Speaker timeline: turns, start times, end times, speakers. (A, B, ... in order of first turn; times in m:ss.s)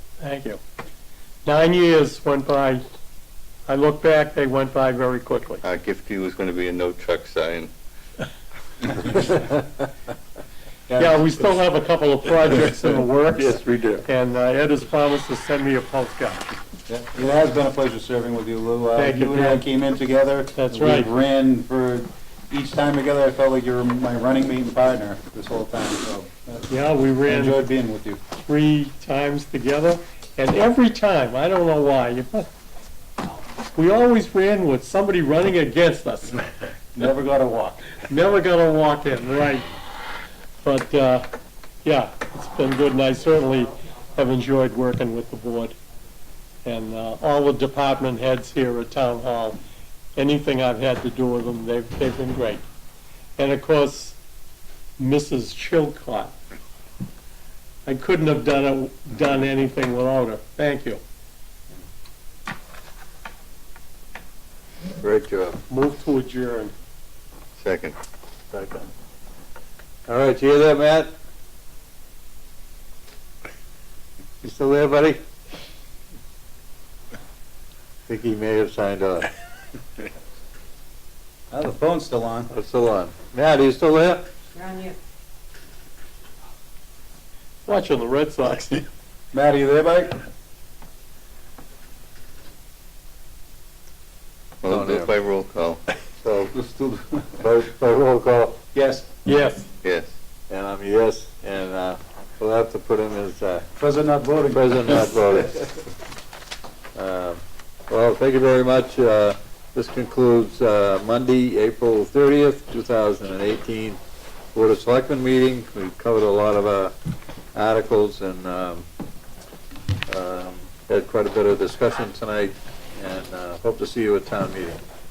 0:00.2-0:00.6 A
0:01.4-0:02.8 A
0:03.6-0:05.6 A
0:05.6-0:07.7 B
0:10.9-0:11.3 C
0:11.0-0:16.4 A
0:16.9-0:26.7 C
0:19.0-0:19.6 A
0:20.6-0:21.1 A
0:26.7-0:27.6 A
0:27.2-0:28.2 C
0:28.4-0:32.5 A
0:33.7-0:36.4 A
0:36.9-0:38.0 C
0:38.0-0:39.7 A
0:40.6-0:41.3 A
0:41.8-0:45.8 A
0:46.6-0:49.6 A
0:50.2-0:52.6 A
0:53.4-0:54.2 A
0:55.0-0:56.3 A
0:57.8-1:01.0 A
1:05.0-1:05.6 D
1:05.7-1:06.7 A
1:07.6-1:08.0 B
1:08.5-1:08.9 D
1:10.0-1:11.1 D
1:14.4-1:15.2 D
1:18.1-1:19.3 D
1:21.5-1:22.5 C
1:22.5-1:24.3 D
1:27.6-1:28.9 A
1:29.3-1:30.2 C
1:34.6-1:35.8 B
1:34.6-1:35.1 D
1:36.2-1:36.6 D
1:36.5-1:37.3 C
1:37.3-1:38.6 D
1:38.7-1:39.1 C
1:39.2-1:39.7 A
1:39.8-1:40.1 B
1:40.5-1:43.7 D
1:43.8-1:45.6 C
1:44.5-1:45.8 D
1:46.9-1:54.0 D
1:54.5-1:56.9 D
1:57.5-1:58.8 D
2:00.1-2:04.8 D